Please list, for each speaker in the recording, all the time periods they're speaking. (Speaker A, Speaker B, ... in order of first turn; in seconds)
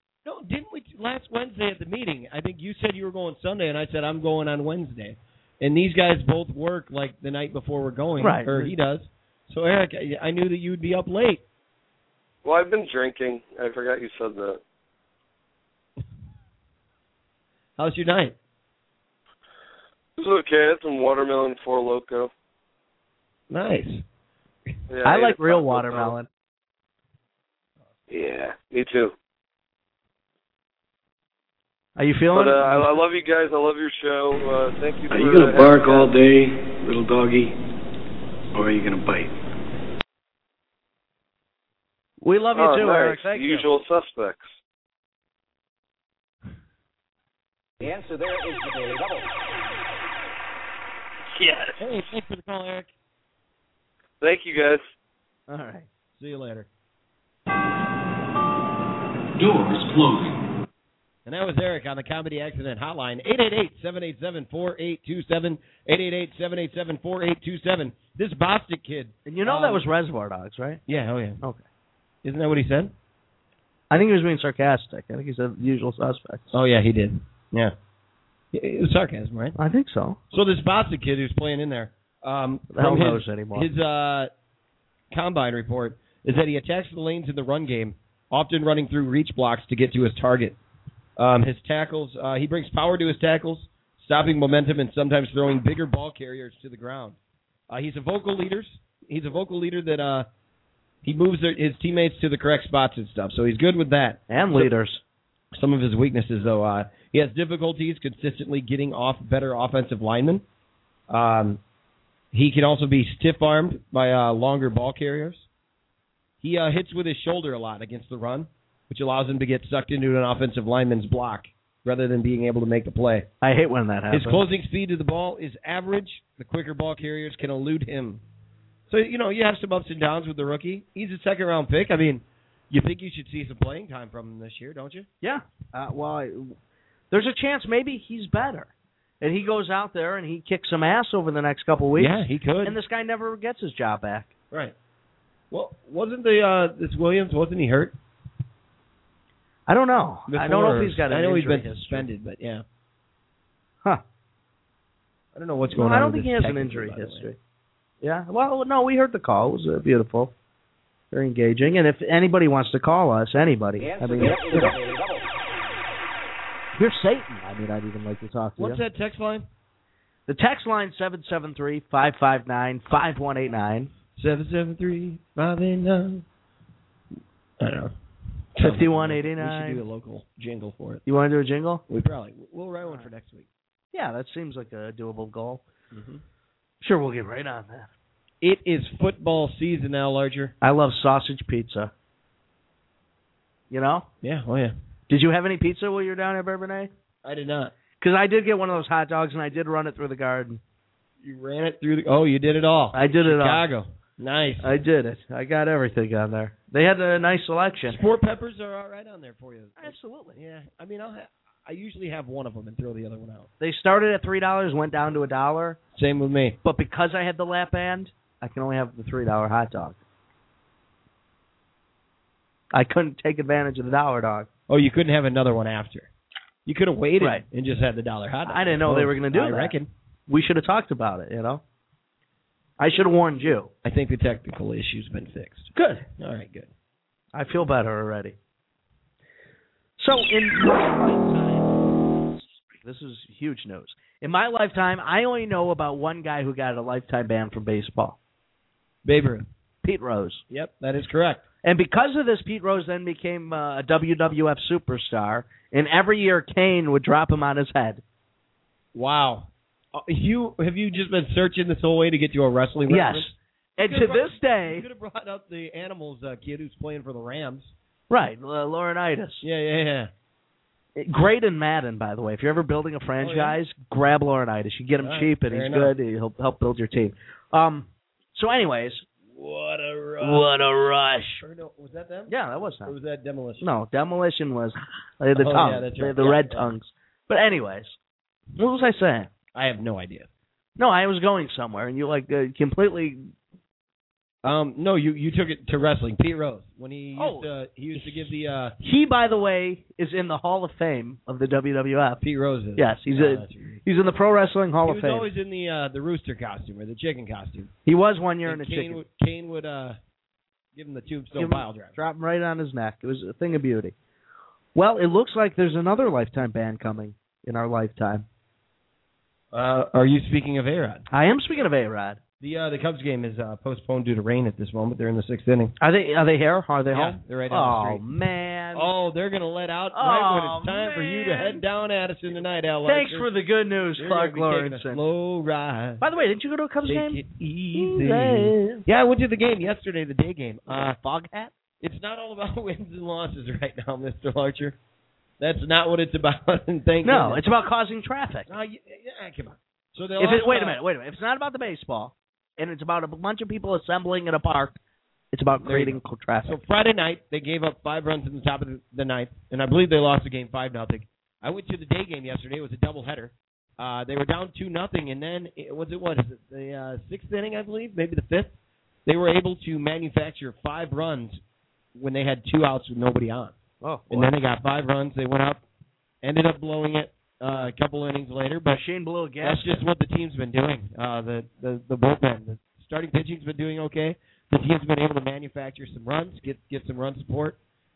Speaker A: 0.2-11.4, 17.8-18.4, 23.5-24.0, 51.8-52.9, 56.1-56.7, 61.2-69.8, 70.9-71.4, 72.2-72.9, 76.5-77.7, 78.5-79.5, 80.3-84.3, 85.1-90.6, 91.2-97.2, 97.7-100.3, 101.0-104.7, 105.5-110.4, 111.1-111.6, 112.3-115.5, 116.4-123.3, 124.1-128.2, 128.9-135.1, 141.9-142.8, 145.5-147.9, 150.3-152.6, 155.3-157.3, 168.6-169.5, 174.2-176.2, 177.6-177.9, 178.5-181.0, 181.9-183.5, 185.9-186.2, 188.4-190.5, 194.2-194.7, 197.2-197.7, 201.2-204.7, 207.9-213.5, 215.9-216.6, 224.7-226.1, 226.7-229.9, 233.8-236.7, 249.0-249.4, 250.5-251.4, 258.9-267.7, 269.4-270.1, 273.2-273.6, 275.0-275.9, 279.3-280.5, 281.4-282.3, 282.8-283.6, 285.3-286.7, 289.5-290.3, 294.4-298.8, 302.2-303.8, 304.8-307.7, 308.4-310.0, 310.7-311.9, 319.5-321.1, 322.4-325.7, 326.9-328.0, 328.7-333.3, 334.0-336.0, 336.8-341.0, 341.8-344.8, 345.4-347.4, 348.5-350.8, 355.6-368.5, 369.1-371.4, 371.9-373.5, 374.1-375.6, 376.2-378.8, 379.4-387.6
Speaker B: 8.2-8.7, 25.0-26.3, 32.0-32.9, 42.2-43.7, 55.5-55.9, 69.2-70.8, 73.9-76.5, 79.6-80.2, 82.7-83.7, 104.3-105.0, 123.4-124.4, 135.2-136.5, 137.1-144.3, 149.7-152.1, 155.7-157.4, 158.0-160.3, 161.1-164.8, 166.8-168.8, 170.3-173.9, 178.6-179.8, 181.1-181.8, 183.9-185.6, 186.8-187.9, 190.6-191.9, 193.7-194.1, 195.1-196.9, 198.0-200.6, 202.9-203.6, 204.6-208.0, 209.8-210.4, 213.6-215.8, 216.6-220.0, 222.7-224.5, 228.4-229.8, 230.3-231.6, 232.8-233.7, 235.7-236.0, 237.3-238.3, 240.0-248.2, 249.8-250.4, 251.6-258.0, 262.9-264.9, 268.1-269.4, 270.9-279.1, 280.2-281.4, 282.3-282.9, 283.6-287.9, 288.6-289.3, 290.8-293.3, 297.1-298.2, 298.8-302.2, 302.8-305.3, 307.9-309.0, 311.4-313.9, 314.7-318.2, 321.1-322.2, 325.8-328.9, 329.9-331.6, 332.8-335.0, 336.0-338.8, 340.7-341.5, 347.0-348.5, 350.2-354.8, 355.3-356.6, 373.8-374.3, 378.7-379.8
Speaker C: 12.4-14.6, 20.2-22.3, 24.9-26.1, 28.1-29.1, 32.3-36.1, 42.5-44.5, 51.4-51.7, 54.2-54.8
Speaker D: 35.2-37.5, 38.6-39.2, 59.4-60.3
Speaker E: 47.8-49.3, 163.8-165.2